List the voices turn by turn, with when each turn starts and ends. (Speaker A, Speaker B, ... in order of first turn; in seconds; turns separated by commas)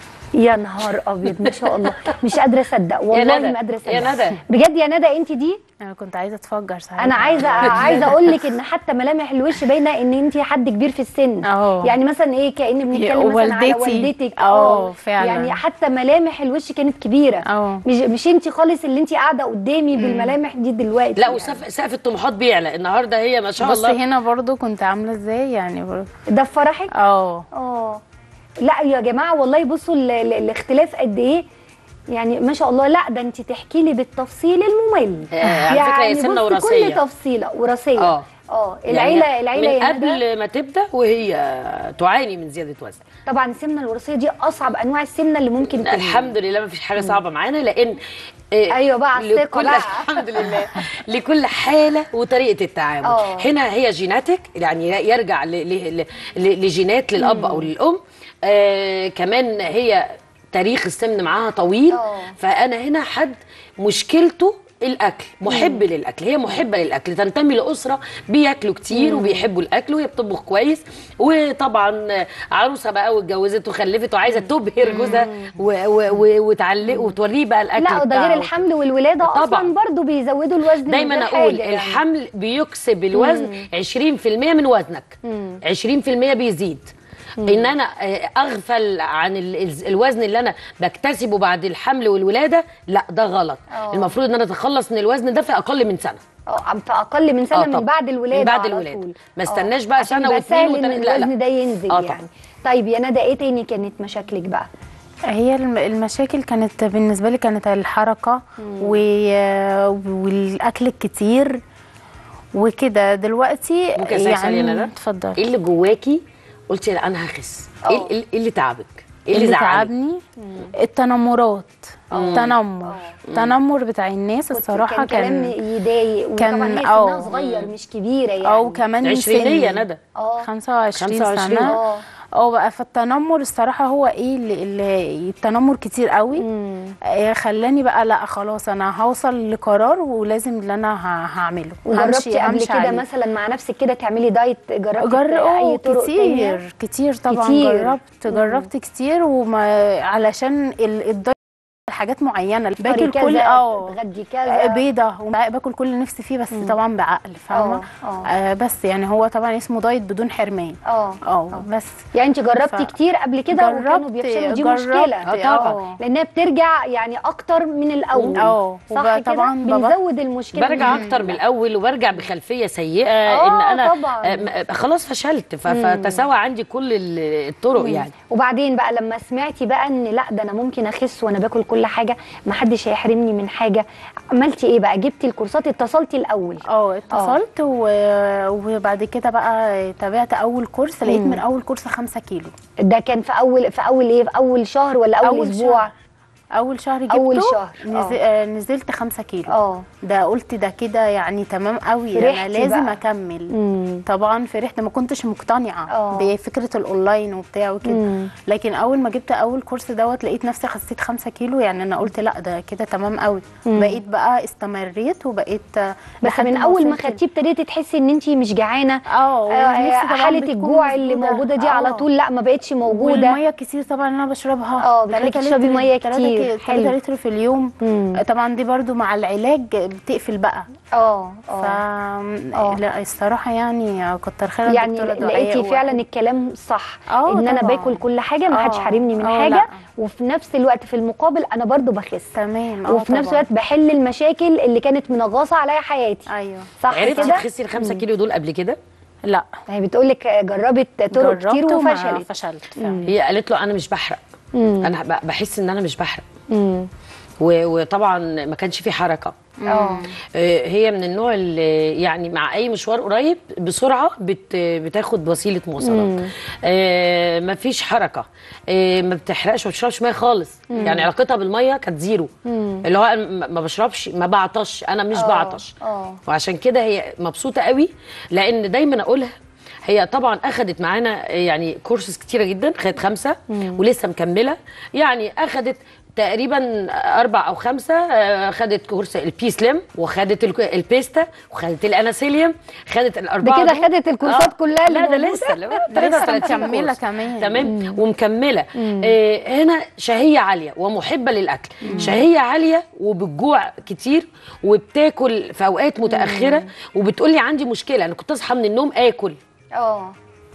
Speaker A: 0.4-5.6, Speaker B: 1.3-2.2, Speaker B: 3.1-4.3, Speaker C: 5.8-8.4, Speaker A: 7.0-21.6, Speaker C: 11.5-11.9, Speaker C: 12.9-15.6, Speaker C: 17.5-17.8, Speaker C: 20.0-20.3, Speaker B: 21.1-24.0, Speaker C: 23.6-26.1, Speaker A: 26.3-26.9, Speaker C: 26.9-27.4, Speaker A: 27.5-28.0, Speaker A: 28.6-31.4, Speaker A: 32.1-40.2, Speaker B: 35.3-37.0, Speaker B: 38.0-38.2, Speaker B: 38.9-43.0, Speaker A: 43.3-46.3, Speaker B: 45.8-48.0, Speaker B: 48.5-78.5, Speaker A: 48.7-50.9, Speaker A: 53.0-53.5, Speaker A: 57.2-57.7, Speaker A: 61.9-62.3, Speaker A: 65.5-65.8, Speaker A: 68.9-69.5, Speaker C: 74.9-75.2, Speaker A: 74.9-75.5, Speaker A: 77.8-82.0, Speaker B: 79.2-79.7, Speaker B: 80.8-86.9, Speaker A: 83.1-83.7, Speaker A: 85.2-85.6, Speaker A: 87.4-87.7, Speaker B: 87.4-96.2, Speaker A: 93.7-94.2, Speaker A: 96.5-104.7, Speaker B: 97.5-101.3, Speaker B: 101.9-102.2, Speaker C: 105.3-111.6, Speaker A: 108.6-109.0, Speaker C: 112.5-115.4, Speaker B: 114.0-119.9, Speaker A: 117.8-118.1, Speaker C: 119.3-120.2, Speaker A: 120.4-120.7, Speaker C: 120.8-121.8, Speaker A: 122.1-123.2, Speaker B: 122.1-122.5, Speaker C: 122.3-125.5, Speaker A: 124.5-128.9, Speaker C: 126.4-127.3, Speaker B: 127.3-127.7, Speaker C: 128.4-129.8, Speaker B: 129.0-130.0, Speaker A: 130.1-130.5, Speaker C: 130.4-131.8, Speaker B: 130.9-131.7, Speaker A: 131.6-132.0, Speaker C: 132.4-136.4, Speaker A: 136.3-136.9, Speaker C: 137.2-143.0, Speaker A: 141.8-146.6, Speaker C: 145.0-151.3, Speaker A: 147.3-148.7, Speaker C: 151.9-153.9, Speaker A: 152.8-154.8, Speaker C: 154.5-162.0, Speaker A: 157.5-158.3, Speaker A: 160.8-171.4, Speaker C: 162.6-162.9, Speaker C: 163.5-166.0, Speaker B: 165.2-165.8, Speaker B: 168.1-168.4, Speaker C: 168.4-169.9, Speaker B: 170.5-178.1, Speaker C: 170.8-171.2, Speaker A: 173.3-174.5, Speaker A: 175.7-176.2, Speaker A: 177.8-187.4, Speaker C: 186.7-192.5, Speaker A: 191.1-191.4, Speaker A: 192.8-195.9, Speaker C: 195.2-195.9, Speaker C: 196.5-199.5, Speaker A: 197.1-198.2, Speaker A: 199.5-199.9, Speaker C: 200.0-203.5, Speaker A: 202.1-203.0, Speaker A: 203.5-204.0, Speaker C: 204.1-217.2, Speaker A: 205.9-206.3, Speaker A: 207.8-208.3, Speaker A: 213.6-214.0, Speaker A: 216.2-223.4, Speaker C: 219.1-222.1, Speaker C: 222.9-230.7, Speaker A: 224.8-226.9, Speaker A: 227.8-228.2, Speaker A: 230.9-231.8, Speaker C: 231.6-236.0, Speaker A: 234.7-242.3, Speaker C: 237.1-238.0, Speaker C: 238.5-239.7, Speaker C: 242.4-243.4, Speaker A: 242.9-246.3, Speaker C: 246.3-247.3, Speaker A: 246.8-248.0, Speaker B: 246.9-248.8, Speaker A: 249.7-253.1, Speaker C: 251.1-253.0, Speaker B: 253.1-254.2, Speaker A: 254.5-254.9, Speaker B: 254.8-256.2, Speaker A: 256.5-256.9, Speaker B: 257.4-259.4, Speaker C: 259.6-260.0, Speaker A: 259.7-260.1, Speaker B: 260.3-272.3, Speaker A: 265.8-266.3, Speaker A: 270.7-271.1, Speaker A: 272.4-272.8, Speaker B: 272.9-275.7, Speaker A: 275.1-276.2, Speaker B: 276.3-279.3, Speaker B: 279.9-309.4, Speaker A: 283.5-283.8, Speaker A: 293.4-296.7, Speaker C: 295.9-297.7, Speaker A: 297.6-298.0, Speaker A: 298.8-299.1, Speaker C: 301.9-302.2, Speaker A: 301.9-302.2, Speaker A: 306.1-306.6, Speaker A: 309.8-310.1